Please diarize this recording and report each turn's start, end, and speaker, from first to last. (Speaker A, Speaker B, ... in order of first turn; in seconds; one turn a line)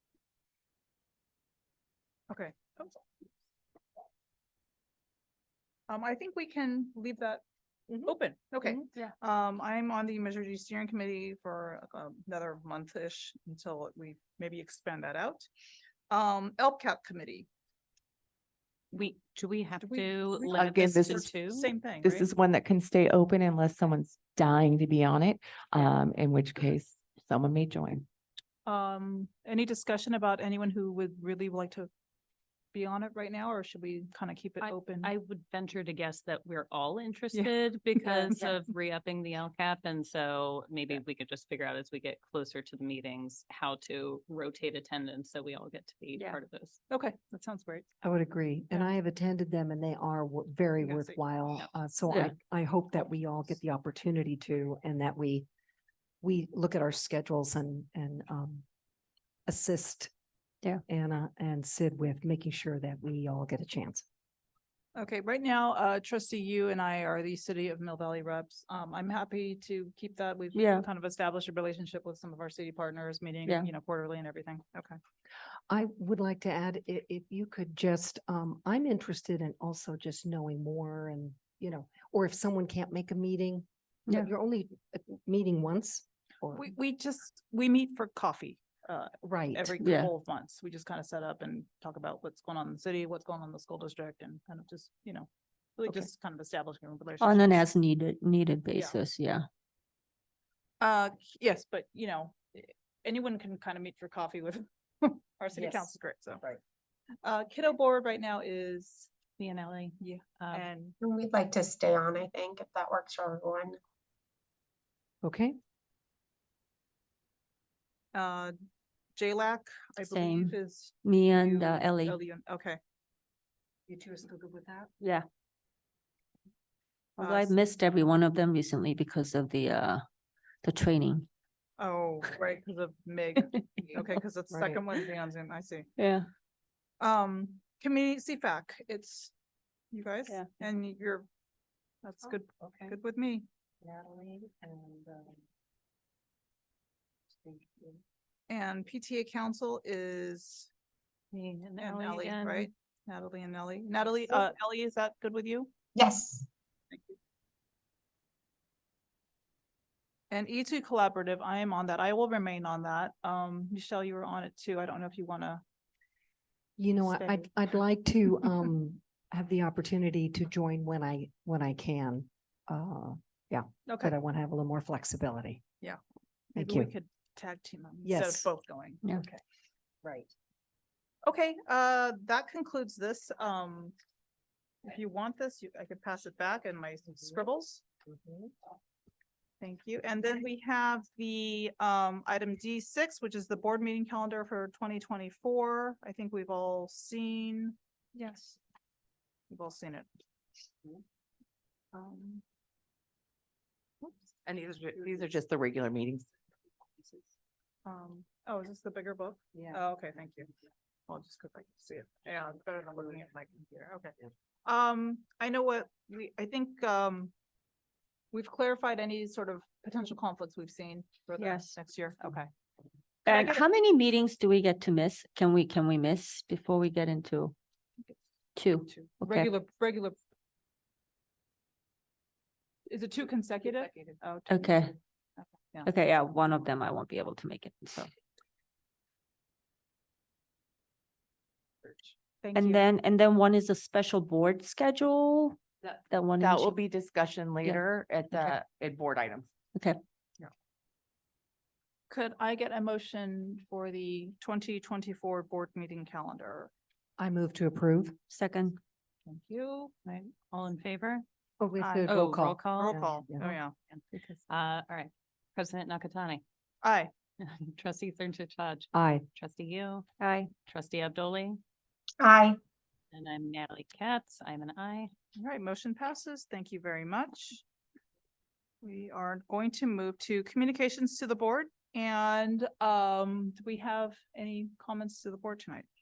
Speaker A: 2.3-3.0
Speaker A: 5.9-7.4
Speaker A: 8.0-15.5
Speaker A: 16.1-17.5
Speaker B: 18.9-21.7
Speaker A: 19.8-22.2
Speaker C: 20.5-21.3
Speaker C: 22.0-28.1
Speaker A: 28.6-31.9
Speaker A: 32.7-35.1
Speaker B: 34.6-46.8
Speaker A: 37.3-38.5
Speaker A: 46.9-47.9
Speaker D: 48.0-55.5
Speaker A: 50.8-51.2
Speaker D: 56.2-58.6
Speaker D: 59.5-60.1
Speaker D: 60.9-64.0
Speaker A: 64.9-75.0
Speaker E: 70.5-70.9
Speaker D: 75.7-86.7
Speaker A: 86.6-97.7
Speaker D: 89.2-89.7
Speaker E: 89.8-90.1
Speaker E: 97.2-99.4
Speaker A: 98.7-99.0
Speaker A: 100.8-106.4
Speaker D: 105.5-106.6
Speaker A: 107.2-109.1
Speaker B: 109.4-110.6
Speaker A: 110.0-111.0
Speaker F: 111.0-113.8
Speaker D: 115.2-115.5
Speaker A: 118.1-118.5
Speaker A: 119.2-122.8
Speaker E: 120.0-122.2
Speaker D: 123.9-124.9
Speaker E: 125.0-125.2
Speaker A: 127.2-127.6
Speaker E: 127.2-130.0
Speaker E: 130.6-131.3
Speaker A: 131.8-135.9
Speaker D: 134.5-134.9
Speaker E: 136.0-136.3
Speaker A: 137.0-139.3
Speaker A: 139.9-141.3
Speaker A: 142.0-143.4
Speaker D: 142.2-143.0
Speaker D: 143.8-145.4
Speaker D: 147.4-148.0
Speaker A: 148.5-150.7
Speaker B: 151.3-152.7
Speaker A: 151.8-155.7
Speaker F: 155.9-156.4
Speaker A: 156.9-157.2
Speaker A: 160.3-165.6
Speaker D: 166.8-175.6
Speaker A: 167.0-167.5
Speaker A: 173.9-174.1
Speaker A: 176.5-179.0
Speaker D: 176.6-176.9
Speaker D: 178.0-178.5
Speaker D: 179.2-179.4
Speaker D: 180.0-180.3
Speaker A: 181.2-183.9
Speaker A: 184.8-187.8
Speaker D: 188.1-188.5
Speaker A: 189.6-198.6
Speaker A: 199.5-200.1
Speaker A: 201.9-202.4
Speaker C: 204.4-206.3
Speaker A: 207.8-210.5
Speaker A: 211.1-217.3
Speaker A: 218.3-222.5
Speaker E: 221.4-221.7
Speaker A: 223.2-223.6
Speaker E: 223.2-227.5
Speaker E: 228.6-229.5
Speaker A: 228.9-230.2
Speaker A: 232.9-235.9
Speaker E: 234.5-234.9
Speaker E: 235.8-238.1
Speaker A: 242.4-242.9
Speaker E: 242.5-246.8
Speaker C: 246.4-249.5
Speaker A: 252.1-256.7
Speaker D: 257.2-258.1
Speaker E: 258.3-258.8
Speaker A: 259.3-259.9
Speaker B: 260.0-261.2
Speaker D: 261.6-263.5
Speaker A: 261.8-263.7
Speaker B: 262.1-266.4
Speaker A: 266.8-267.1
Speaker B: 267.4-270.1
Speaker D: 268.9-269.2
Speaker E: 270.2-270.5
Speaker B: 270.6-271.6
Speaker F: 272.2-272.6
Speaker B: 273.1-275.1
Speaker A: 275.4-277.6
Speaker A: 278.8-285.9